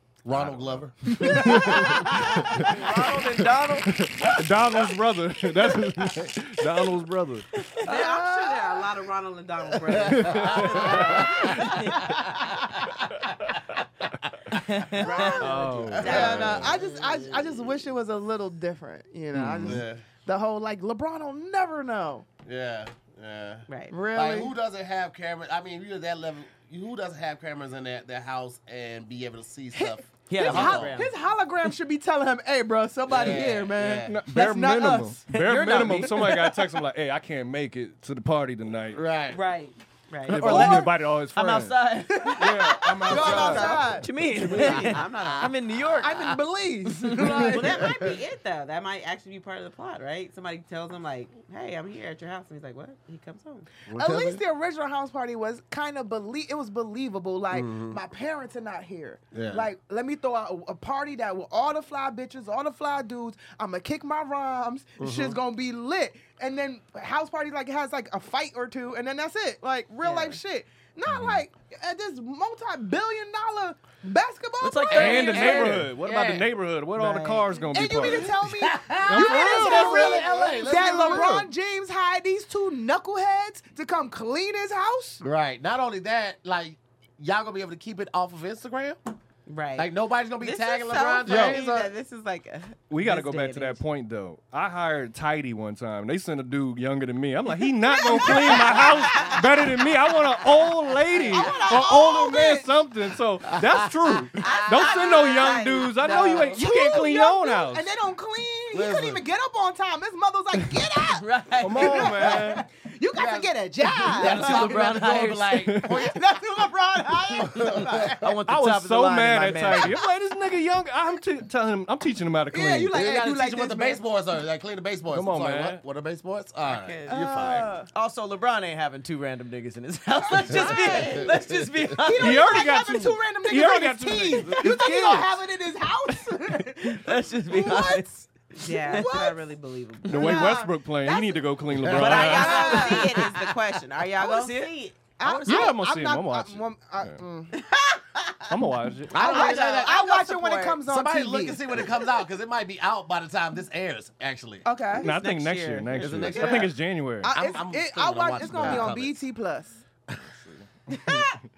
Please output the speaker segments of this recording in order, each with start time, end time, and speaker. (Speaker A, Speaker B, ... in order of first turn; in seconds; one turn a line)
Speaker A: 0.2-2.0
Speaker B: 0.3-2.8
Speaker C: 1.1-2.9
Speaker D: 2.7-3.9
Speaker B: 3.8-7.5
Speaker D: 7.6-7.8
Speaker E: 7.8-11.8
Speaker C: 7.9-8.9
Speaker A: 9.9-11.7
Speaker B: 10.1-11.7
Speaker D: 11.6-11.9
Speaker A: 12.3-17.8
Speaker D: 14.6-15.4
Speaker C: 15.0-22.3
Speaker E: 15.0-15.4
Speaker B: 15.4-16.6
Speaker E: 16.0-17.2
Speaker B: 19.3-19.8
Speaker A: 19.4-20.1
Speaker A: 22.4-31.1
Speaker E: 23.7-23.9
Speaker C: 23.9-24.5
Speaker C: 29.7-35.2
Speaker D: 30.3-31.1
Speaker A: 33.1-34.2
Speaker B: 34.0-39.0
Speaker D: 35.3-36.8
Speaker A: 38.9-39.4
Speaker E: 39.3-40.9
Speaker D: 40.3-46.3
Speaker B: 40.3-44.9
Speaker C: 43.0-44.1
Speaker E: 43.1-43.9
Speaker E: 44.5-45.5
Speaker C: 46.0-48.0
Speaker D: 47.0-47.5
Speaker A: 47.3-48.1
Speaker E: 47.4-53.7
Speaker A: 53.9-54.4
Speaker C: 53.9-75.8
Speaker A: 57.5-58.0
Speaker A: 59.3-59.7
Speaker A: 65.0-65.4
Speaker D: 70.0-70.4
Speaker B: 71.1-71.4
Speaker D: 74.6-75.9
Speaker B: 74.9-78.3
Speaker A: 75.3-76.5
Speaker E: 77.0-77.7
Speaker D: 77.1-77.4
Speaker C: 77.7-85.2
Speaker A: 78.2-81.4
Speaker B: 79.0-80.2
Speaker B: 80.8-81.5
Speaker A: 85.2-89.0
Speaker E: 89.5-93.8
Speaker A: 89.8-91.9
Speaker B: 91.3-91.6
Speaker B: 92.9-107.9
Speaker C: 97.9-99.4
Speaker E: 98.0-99.4
Speaker C: 101.2-102.8
Speaker E: 101.4-101.8
Speaker A: 103.5-104.2
Speaker E: 104.4-106.6
Speaker C: 106.5-114.7
Speaker A: 108.7-109.2
Speaker D: 111.1-112.4
Speaker B: 111.6-112.7
Speaker A: 113.2-116.4
Speaker D: 114.2-115.6
Speaker B: 115.5-116.0
Speaker C: 116.0-118.3
Speaker A: 117.3-118.3
Speaker D: 118.2-120.0
Speaker B: 118.5-123.0
Speaker C: 119.7-120.0
Speaker C: 122.5-124.0
Speaker A: 122.9-127.1
Speaker B: 125.1-125.8
Speaker E: 126.7-127.2
Speaker D: 127.1-132.7
Speaker C: 127.1-127.8
Speaker B: 127.3-127.6
Speaker C: 130.4-131.2
Speaker E: 130.5-131.3
Speaker C: 132.0-139.4
Speaker B: 132.2-135.3
Speaker D: 136.3-138.1
Speaker E: 138.6-140.5
Speaker D: 138.9-139.3
Speaker B: 140.1-143.1
Speaker C: 140.1-141.4
Speaker A: 141.8-142.3
Speaker E: 141.9-145.0
Speaker C: 141.9-143.2
Speaker D: 144.2-145.7
Speaker C: 145.2-147.6
Speaker B: 145.5-147.2
Speaker E: 147.5-148.6
Speaker B: 148.5-149.2
Speaker A: 149.1-150.0
Speaker E: 149.1-150.8
Speaker C: 149.2-151.9
Speaker A: 150.8-154.7
Speaker C: 154.7-155.1
Speaker B: 155.0-157.3
Speaker D: 155.2-156.7
Speaker E: 155.2-156.7
Speaker A: 156.0-156.7
Speaker C: 157.2-159.8
Speaker A: 157.3-159.2
Speaker B: 160.3-161.4
Speaker E: 161.0-161.3